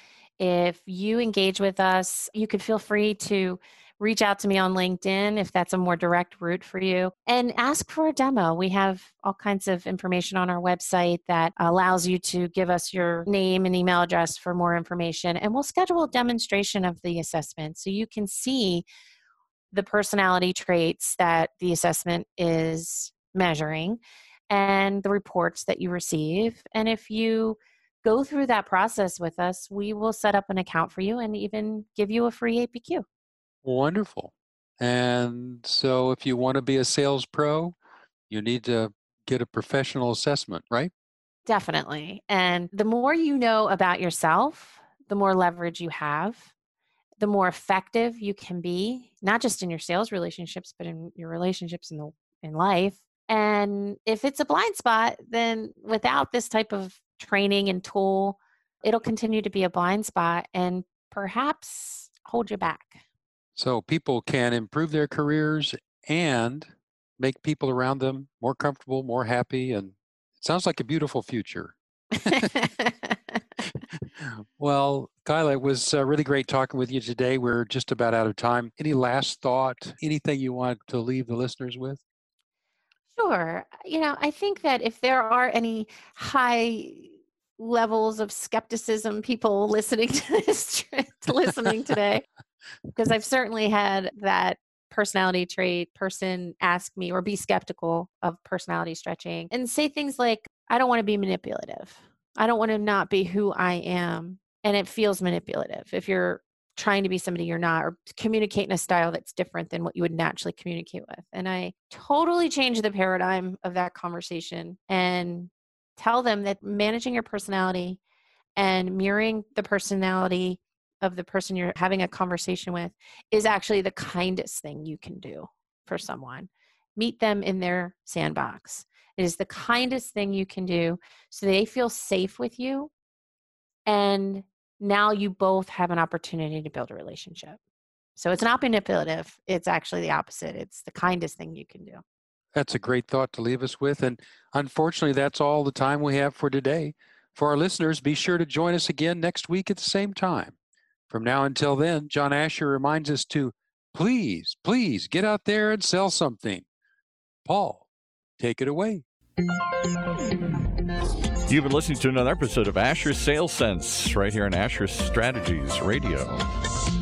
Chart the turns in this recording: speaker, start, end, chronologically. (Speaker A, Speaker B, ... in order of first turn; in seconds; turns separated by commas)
Speaker A: 0.4-18.8, Speaker A: 19.7-33.0, Speaker B: 33.6-37.8, Speaker B: 38.3-40.9, Speaker A: 41.5-46.5, Speaker A: 47.2-63.0, Speaker B: 63.5-72.5, Speaker A: 72.3-73.1, Speaker B: 74.2-82.0, Speaker A: 83.1-92.2, Speaker A: 92.9-118.0, Speaker A: 118.6-132.9, Speaker A: 133.9-137.6, Speaker A: 138.2-142.0, Speaker B: 142.5-150.5, Speaker B: 151.1-156.7, Speaker B: 157.4-157.8, Speaker B: 158.4-159.0, Speaker C: 161.5-166.4